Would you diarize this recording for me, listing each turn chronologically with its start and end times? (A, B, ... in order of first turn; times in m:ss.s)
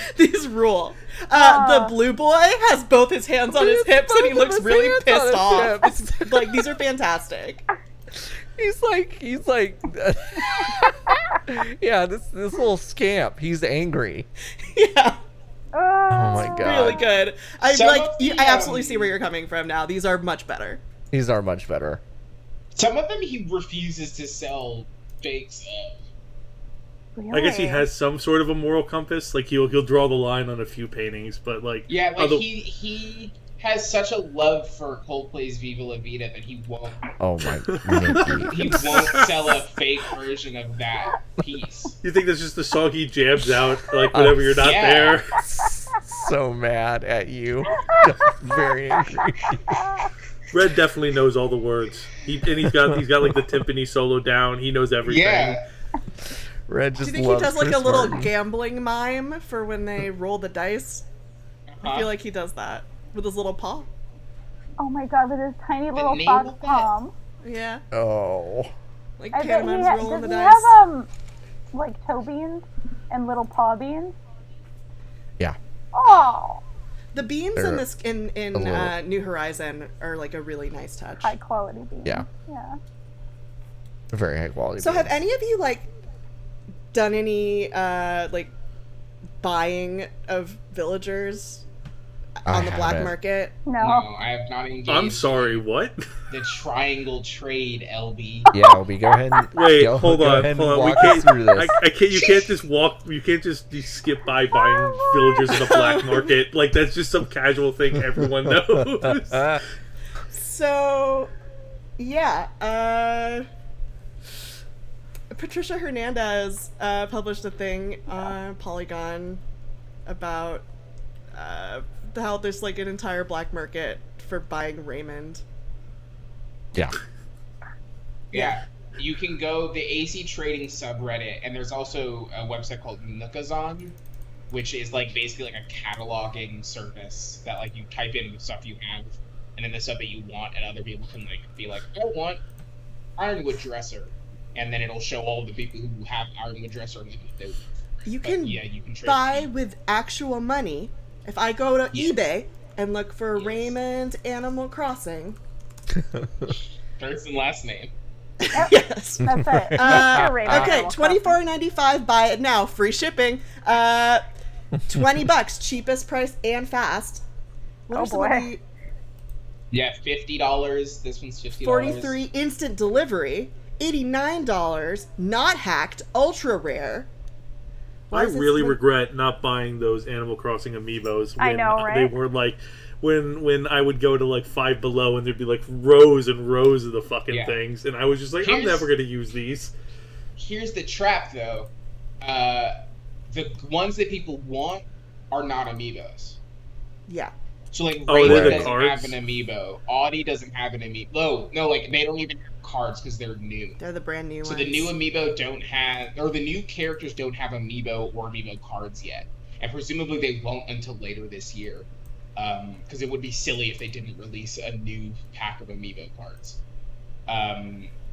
0:00.1-0:07.6 A
0:01.3-0:02.0 B
0:03.5-0:06.7 C
0:08.5-0:14.3 C
0:14.6-0:15.2 A
0:15.7-0:17.1 B
0:16.1-0:17.0 C
0:16.4-0:20.8 A
0:17.6-0:19.1 D
0:21.1-0:22.0 C
0:22.8-0:26.0 D
0:27.2-0:27.9 B
0:27.3-0:32.4 E
0:31.9-0:37.1 D
0:37.2-0:39.1 C
0:37.7-0:39.5 E
0:38.5-0:42.0 D
0:42.0-0:45.4 E
0:44.1-0:44.7 C
0:44.6-0:45.2 D
0:45.4-0:49.9 C
0:47.7-0:48.1 B
0:49.7-0:50.1 B
0:50.5-0:55.6 E
0:52.7-0:53.0 C
0:55.0-0:55.6 D
0:56.7-0:58.3 C
0:57.0-1:01.0 A
1:01.7-1:02.1 D
1:01.8-1:03.9 A
1:04.8-1:07.1 B
1:05.9-1:06.9 D
1:07.4-1:07.8 A
1:07.9-1:08.7 C
1:09.2-1:10.8 A
1:09.3-1:11.1 B
1:11.7-1:14.2 B
1:15.9-1:16.6 B
1:17.1-1:21.3 A
1:17.6-1:17.8 C
1:18.5-1:18.9 C
1:21.2-1:22.8 B
1:24.1-1:25.1 C
1:24.8-1:25.9 A
1:26.9-1:28.5 A
1:29.4-1:31.6 A
1:32.4-1:33.6 A
1:32.5-1:33.1 C
1:33.7-1:34.0 B
1:33.8-1:35.6 D
1:34.9-1:36.1 E
1:36.3-1:38.5 D
1:38.5-1:41.8 C
1:39.5-1:49.6 E
1:42.1-1:42.5 A
1:45.4-1:46.3 A
1:48.0-1:49.6 C
1:50.3-1:51.3 A
1:52.0-1:53.4 A
1:55.3-1:59.4 A
2:00.0-2:00.7 A
2:01.3-2:05.4 A
2:08.3-2:14.0 D
2:08.3-2:08.6 A
2:14.5-2:22.4 D
2:23.2-2:27.6 D
2:28.0-2:35.4 A
2:28.2-2:29.5 D
2:31.9-2:32.2 D
2:33.3-2:33.7 D
2:35.9-2:36.5 C
2:37.0-2:37.9 D
2:38.4-2:44.2 A
2:38.5-2:41.3 B
2:39.3-2:40.8 C
2:44.9-2:47.2 A
2:44.9-2:45.2 C
2:47.9-2:48.6 A
2:47.9-2:48.5 B
2:49.7-2:52.2 D
2:51.5-2:57.1 A
2:58.1-3:09.7 E
2:58.1-2:58.8 A
3:01.4-3:02.1 B
3:07.3-3:07.6 D
3:08.4-3:08.9 D
3:10.4-3:11.7 D
3:12.2-3:12.7 D
3:13.3-3:16.4 D
3:17.1-3:17.3 A
3:17.7-3:23.8 D
3:18.1-3:19.2 E
3:18.2-3:18.7 C
3:23.8-3:24.9 A
3:24.4-3:36.6 D
3:37.3-3:37.9 D